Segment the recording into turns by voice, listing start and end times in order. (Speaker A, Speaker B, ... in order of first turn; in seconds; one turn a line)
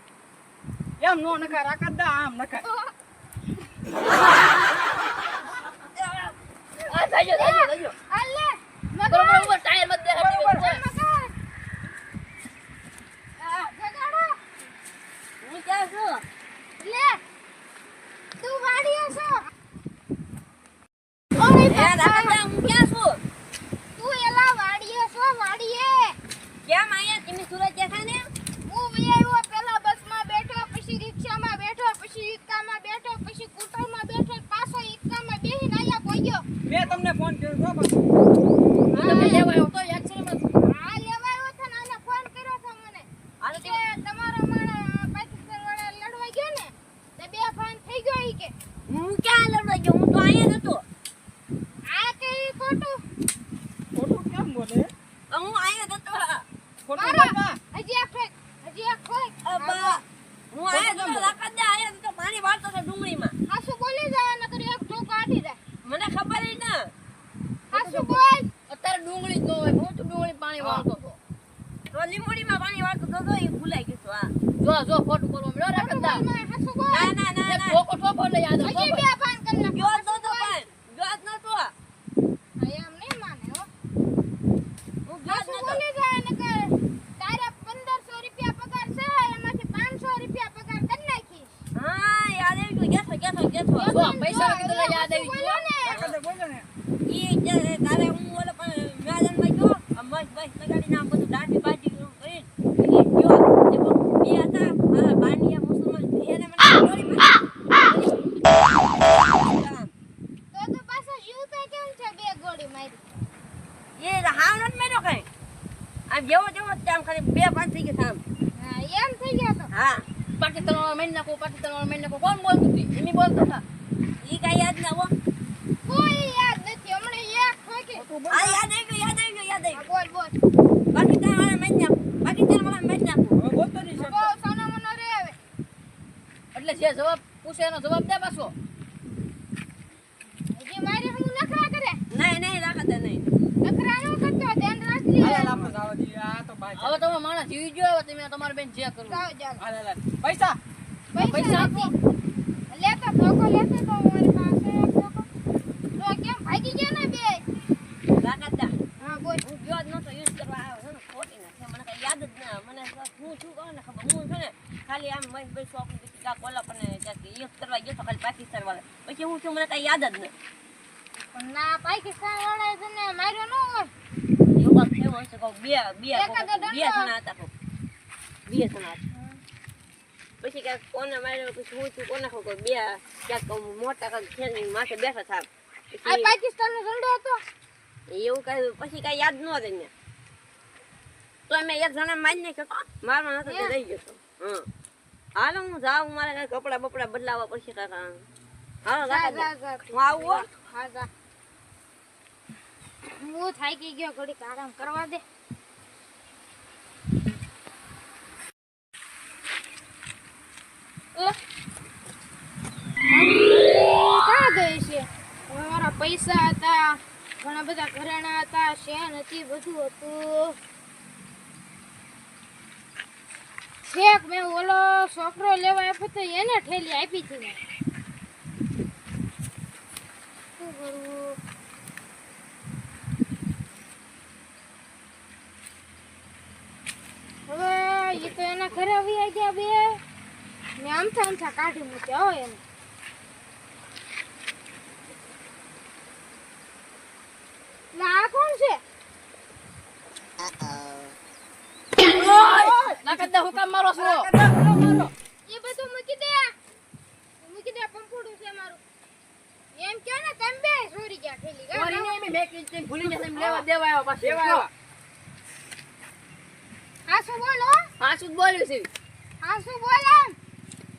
Speaker A: 1.0-2.6
Speaker B: 2.6-2.9
Speaker C: 6.0-6.4
Speaker D: 6.9-8.0
Speaker B: 7.3-9.6
Speaker D: 9.0-10.8
Speaker A: 10.1-10.7
Speaker B: 10.2-11.4
Speaker B: 13.4-14.4
Speaker C: 15.4-16.2
Speaker B: 16.8-17.2
Speaker B: 18.4-19.5
Speaker B: 21.4-22.4
Speaker C: 21.6-23.2
Speaker B: 24.0-26.2
Speaker C: 26.7-28.3
Speaker B: 28.7-36.5
Speaker A: 36.7-38.0
Speaker B: 38.9-39.5
Speaker D: 39.0-40.5
Speaker B: 40.6-48.5
Speaker C: 43.4-43.8
Speaker C: 48.9-50.8
Speaker B: 51.9-53.0
Speaker A: 53.9-54.9
Speaker C: 55.3-56.5
Speaker A: 56.9-57.6
Speaker B: 57.0-60.0
Speaker C: 59.5-63.3
Speaker A: 60.7-61.4
Speaker B: 63.5-65.6
Speaker C: 65.8-66.9
Speaker B: 67.7-68.5
Speaker C: 67.7-68.2
Speaker D: 68.7-71.2
Speaker A: 70.6-70.9
Speaker C: 71.9-74.3
Speaker D: 74.6-76.2
Speaker B: 75.7-77.2
Speaker C: 76.9-77.8
Speaker D: 77.5-79.1
Speaker B: 78.6-80.6
Speaker C: 79.5-81.7
Speaker B: 82.6-83.7
Speaker C: 85.1-85.8
Speaker B: 85.3-91.6
Speaker C: 91.8-93.9
Speaker B: 93.8-96.0
Speaker D: 93.9-95.7
Speaker A: 95.8-96.7
Speaker C: 95.9-96.2
Speaker C: 97.1-108.2
Speaker C: 109.2-109.9
Speaker B: 110.5-113.2
Speaker C: 114.0-115.3
Speaker C: 116.1-118.2
Speaker B: 118.6-119.7
Speaker C: 119.7-120.1
Speaker D: 120.4-123.6
Speaker C: 124.2-125.1
Speaker B: 125.8-128.1
Speaker A: 128.0-128.6
Speaker C: 128.3-129.8
Speaker B: 129.7-130.3
Speaker C: 130.9-133.4
Speaker A: 133.3-134.3
Speaker B: 134.0-135.4
Speaker D: 136.5-138.5
Speaker B: 140.5-142.0
Speaker C: 142.1-143.3
Speaker B: 143.6-145.6
Speaker A: 145.2-147.1
Speaker D: 146.8-149.2
Speaker B: 149.1-149.6
Speaker A: 149.6-150.6
Speaker B: 151.1-151.9
Speaker D: 151.2-151.9
Speaker B: 152.7-155.3
Speaker B: 156.0-157.4
Speaker C: 158.2-158.8
Speaker B: 159.0-159.4
Speaker C: 159.4-170.3
Speaker B: 171.3-173.9
Speaker C: 174.6-177.5
Speaker B: 176.1-177.1
Speaker C: 178.5-179.0
Speaker B: 179.1-179.4
Speaker C: 180.4-186.4
Speaker B: 186.1-187.4
Speaker C: 188.1-189.9
Speaker C: 191.5-194.7
Speaker B: 193.5-193.8
Speaker C: 195.4-198.2
Speaker C: 198.8-200.5
Speaker B: 199.0-201.1
Speaker B: 203.1-205.2
Speaker B: 213.1-220.6
Speaker B: 223.9-227.6
Speaker B: 230.6-231.4
Speaker B: 237.5-240.0
Speaker B: 240.8-242.6
Speaker B: 247.9-248.8
Speaker D: 252.1-254.3
Speaker A: 252.4-255.1
Speaker B: 255.5-256.5
Speaker B: 257.4-258.8
Speaker B: 259.7-262.1
Speaker D: 261.7-264.7
Speaker C: 263.1-263.7
Speaker A: 264.2-264.7
Speaker B: 267.1-267.9
Speaker D: 268.0-268.9
Speaker B: 269.4-270.4